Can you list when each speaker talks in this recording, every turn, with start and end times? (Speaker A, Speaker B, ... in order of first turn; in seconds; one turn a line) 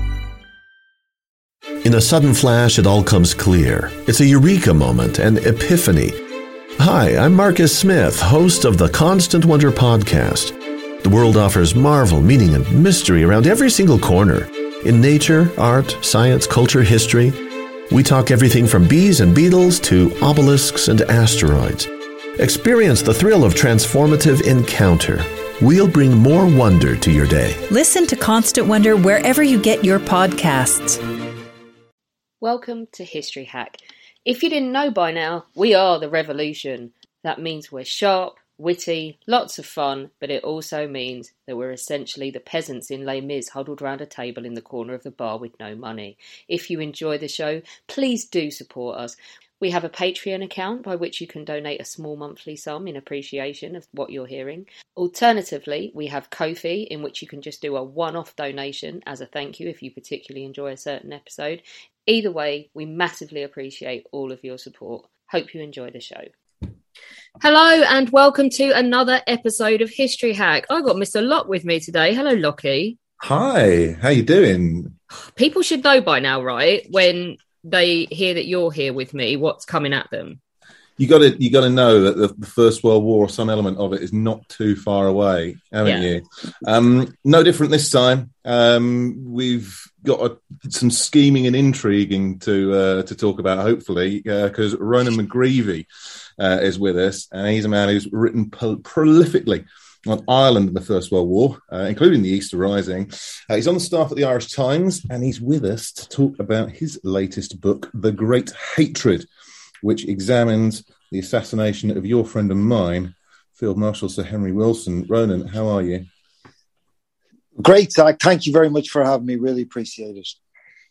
Speaker A: 1.8-6.2
Speaker A: 6.8-27.6
Speaker B: 27.7-31.0
Speaker C: 32.4-66.3
Speaker C: 67.4-73.0
Speaker D: 73.2-75.0
Speaker C: 75.4-80.4
Speaker D: 81.0-95.9
Speaker D: 96.4-109.3
Speaker D: 109.8-116.0
Speaker E: 117.6-120.3